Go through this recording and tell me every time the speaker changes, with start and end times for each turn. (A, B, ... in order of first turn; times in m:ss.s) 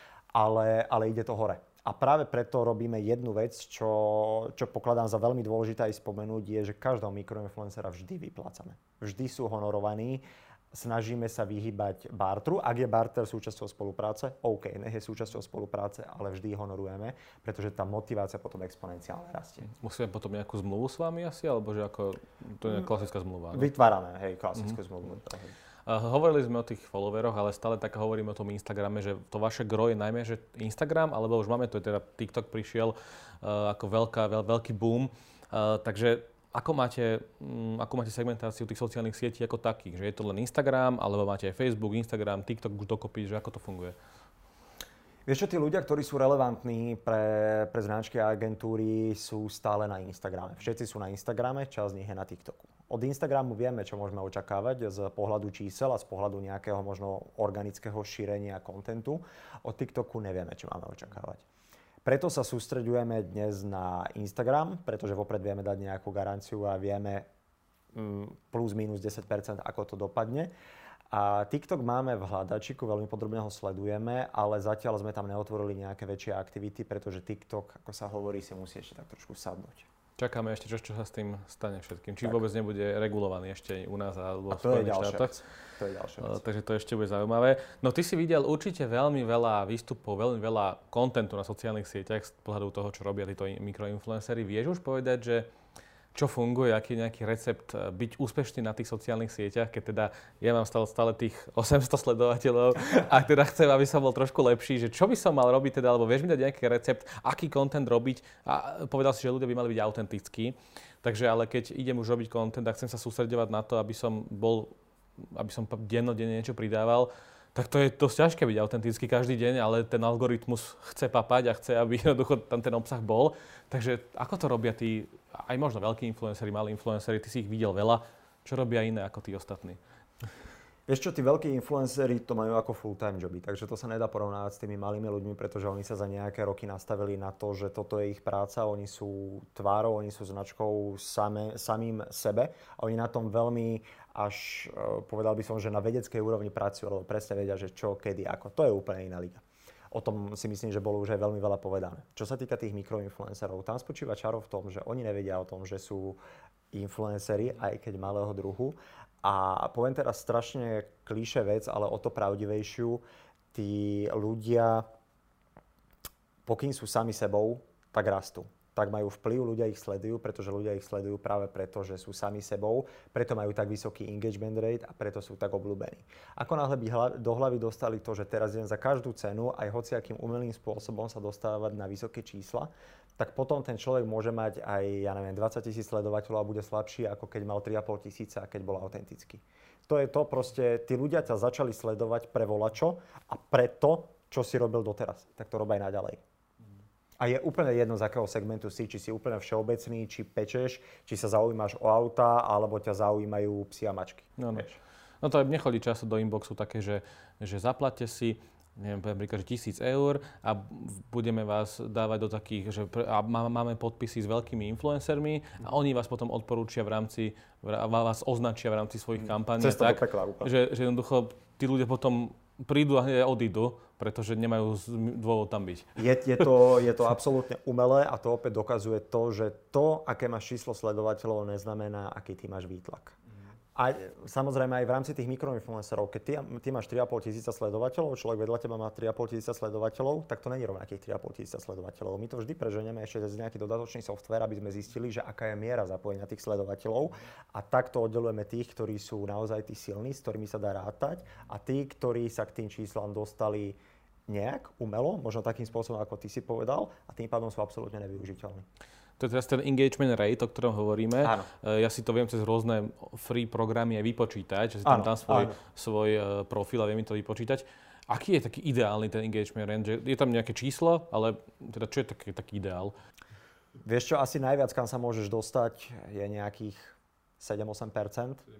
0:00.3-0:19.7 A
0:19.7-0:23.7 B
0:23.5-0:25.5 A
0:25.9-0:44.0 B
0:45.3-1:01.4 A
1:02.0-1:07.3 A
1:07.9-1:10.5 A
1:11.1-1:19.9 A
1:20.2-1:25.3 B
1:24.5-1:26.4 A
1:26.2-1:35.5 B
1:36.1-2:09.8 B
2:10.9-2:36.2 A
2:36.7-2:43.0 A
2:43.5-2:44.9 A
2:46.5-3:16.2 A
3:17.2-3:24.8 A
3:24.4-3:24.6 B
3:25.2-3:45.9 B
3:39.6-3:40.5 A
3:46.0-3:53.2 A
3:53.8-4:18.6 A
4:19.2-4:33.0 B
4:21.2-4:21.5 A
4:24.8-4:25.6 A
4:33.8-4:38.4 A